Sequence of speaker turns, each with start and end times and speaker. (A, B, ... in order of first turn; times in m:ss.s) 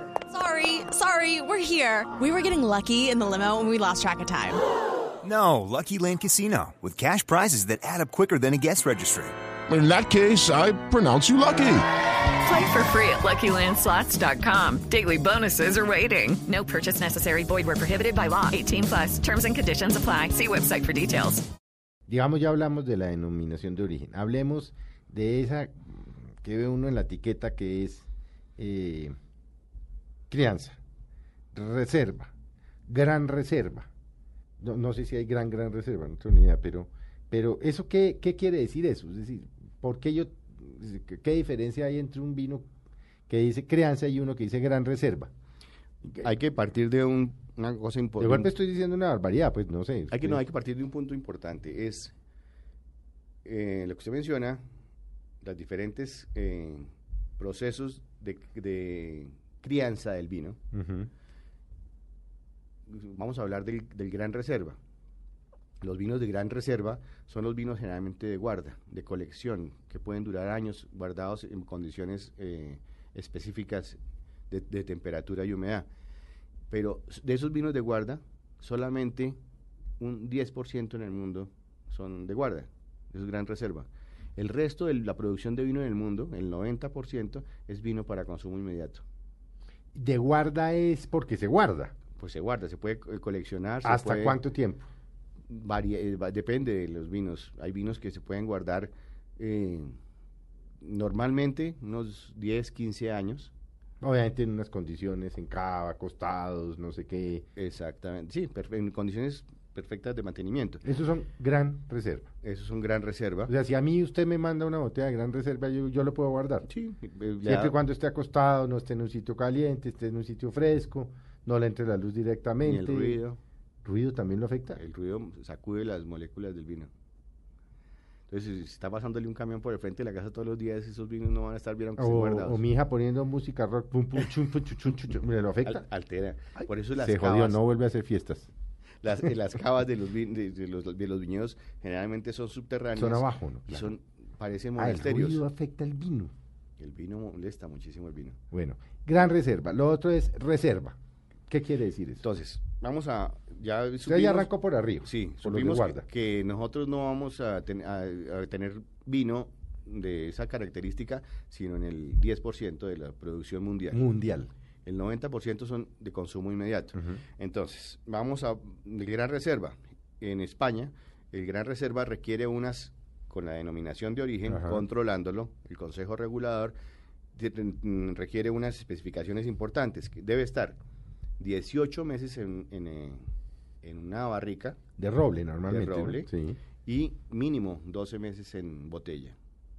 0:00.3-0:04.6 A
0:05.2-0:09.3 B
0:09.7-0:11.8 C
0:12.4-0:21.4 D
0:22.1-0:28.0 E
0:28.6-0:29.1 E
0:30.3-0:30.8 E
0:31.5-0:32.3 E
0:32.9-0:33.9 E
0:34.6-0:42.6 E
0:43.3-0:45.3 E
0:46.2-0:48.5 F
0:48.2-0:50.4 E
0:50.1-0:52.1 F
0:53.4-0:54.6 F
0:55.4-1:00.6 F
1:00.7-1:01.1 E
1:02.9-1:04.8 F
1:05.8-1:14.0 F
1:14.5-1:15.8 F
1:16.7-1:19.4 F
1:20.0-1:29.0 F
1:29.9-1:31.9 E
1:32.2-1:34.4 F
1:33.8-1:34.8 E
1:35.5-1:40.0 F
1:40.8-1:43.5 F
1:44.0-1:47.4 E
1:47.6-1:50.8 F
1:50.8-1:52.3 E
1:52.4-1:53.5 F
1:53.5-1:56.7 E
1:56.7-1:57.7 F
1:57.4-2:03.2 E
2:02.6-2:03.4 F
2:03.8-2:04.8 E
2:04.8-2:06.9 F
2:08.3-2:12.6 F
2:12.0-2:15.8 E
2:15.6-2:17.6 F
2:16.6-2:18.5 E
2:19.0-2:25.4 F
2:22.9-2:23.9 E
2:24.8-2:26.3 E
2:26.8-2:28.4 F
2:28.5-2:31.0 E
2:31.5-2:32.2 E
2:32.2-2:34.5 F
2:34.0-2:36.1 E
2:35.0-2:44.0 F
2:43.9-2:44.5 E
2:44.8-2:56.7 F
2:54.4-2:54.8 E
2:57.3-3:00.8 F
3:01.4-3:03.2 F
3:03.8-3:04.8 F
3:05.0-3:06.6 E
3:05.7-3:06.3 F
3:06.8-3:09.3 F